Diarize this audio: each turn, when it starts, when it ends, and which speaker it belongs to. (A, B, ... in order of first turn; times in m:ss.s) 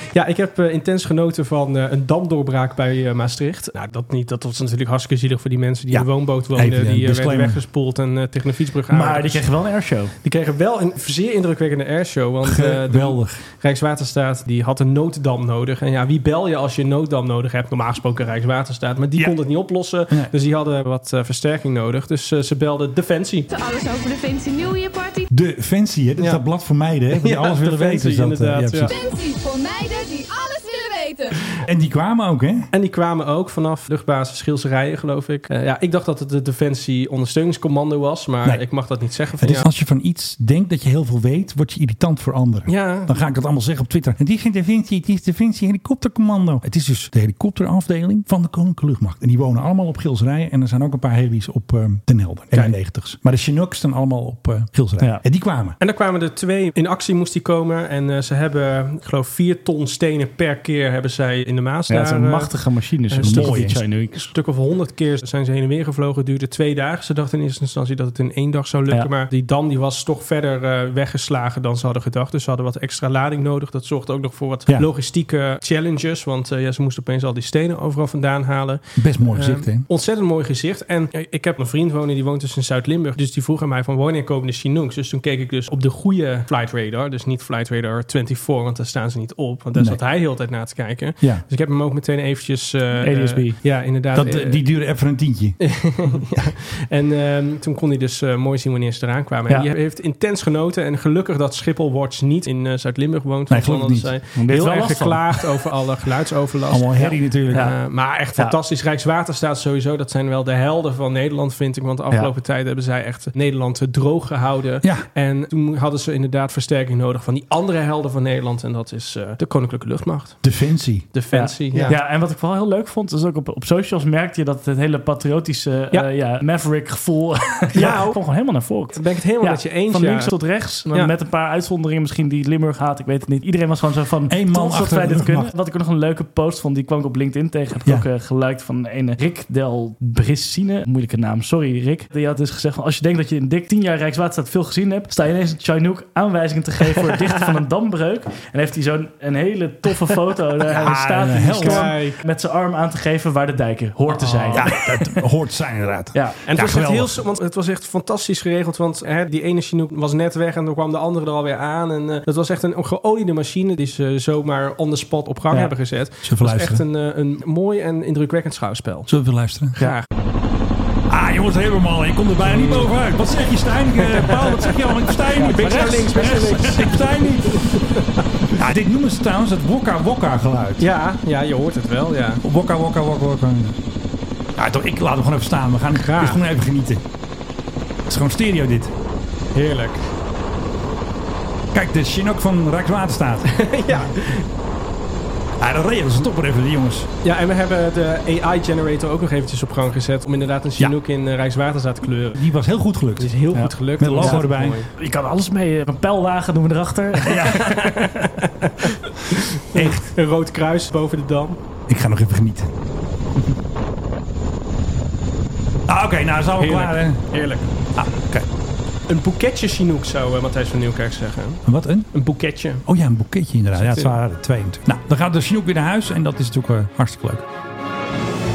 0:00.1-0:09.5 A
0:05.9-0:07.6 B
0:08.9-0:10.2 C
0:10.2-0:23.5 A
0:12.4-0:13.4 B
0:23.5-0:25.3 D
0:25.3-0:28.9 B
0:26.2-0:26.4 A
0:27.1-0:28.9 A
0:28.9-0:31.4 D
0:31.6-0:32.7 B
0:32.7-0:39.7 A
0:39.4-0:55.8 B
0:42.7-0:43.1 A
0:55.8-1:34.9 A
1:01.9-1:04.3 C
1:03.2-1:03.8 B
1:19.0-1:19.9 B
1:29.8-1:30.0 B
1:33.0-1:33.6 C
1:34.1-1:36.5 B
1:35.6-2:00.5 A
1:43.5-1:44.2 B
1:44.4-1:45.4 C
1:46.7-1:47.7 B
1:47.0-1:48.6 C
2:00.4-2:01.1 B
2:01.1-2:02.0 A
2:01.3-2:35.2 C
2:07.7-2:08.2 A
2:08.7-2:10.3 A
2:14.3-2:15.5 B
2:30.7-2:32.0 B
2:31.5-2:32.2 A
2:34.1-2:34.7 A
2:34.5-2:37.2 B
2:36.1-2:36.4 C
2:36.5-2:49.1 A
2:46.2-2:46.8 B
2:49.1-2:49.8 B
2:49.8-2:50.0 A
2:51.1-2:57.8 B
2:52.5-2:52.9 A
2:54.1-2:54.7 A
2:55.4-2:55.8 C
2:55.5-2:58.0 A
2:58.6-3:00.9 B
3:00.8-3:02.4 A
3:02.4-3:03.8 B
3:04.6-3:07.0 B
3:06.0-3:06.4 A
3:08.1-3:08.9 B
3:09.5-3:10.1 A
3:11.7-3:13.7 B
3:13.5-3:14.4 A
3:15.6-3:17.1 B
3:17.2-3:22.4 A
3:22.4-3:23.4 B
3:23.2-3:24.9 A
3:23.5-3:28.1 C
3:24.0-3:24.8 B
3:27.3-3:27.8 B
3:27.7-3:28.0 A
3:29.3-3:31.6 A
3:29.7-3:30.1 B
3:31.9-3:32.7 B
3:35.9-3:37.4 B
3:36.6-3:37.7 A
3:38.0-3:38.5 B
3:39.1-3:42.8 A
3:41.6-3:42.1 B
3:42.8-3:47.4 B
3:43.8-3:44.2 A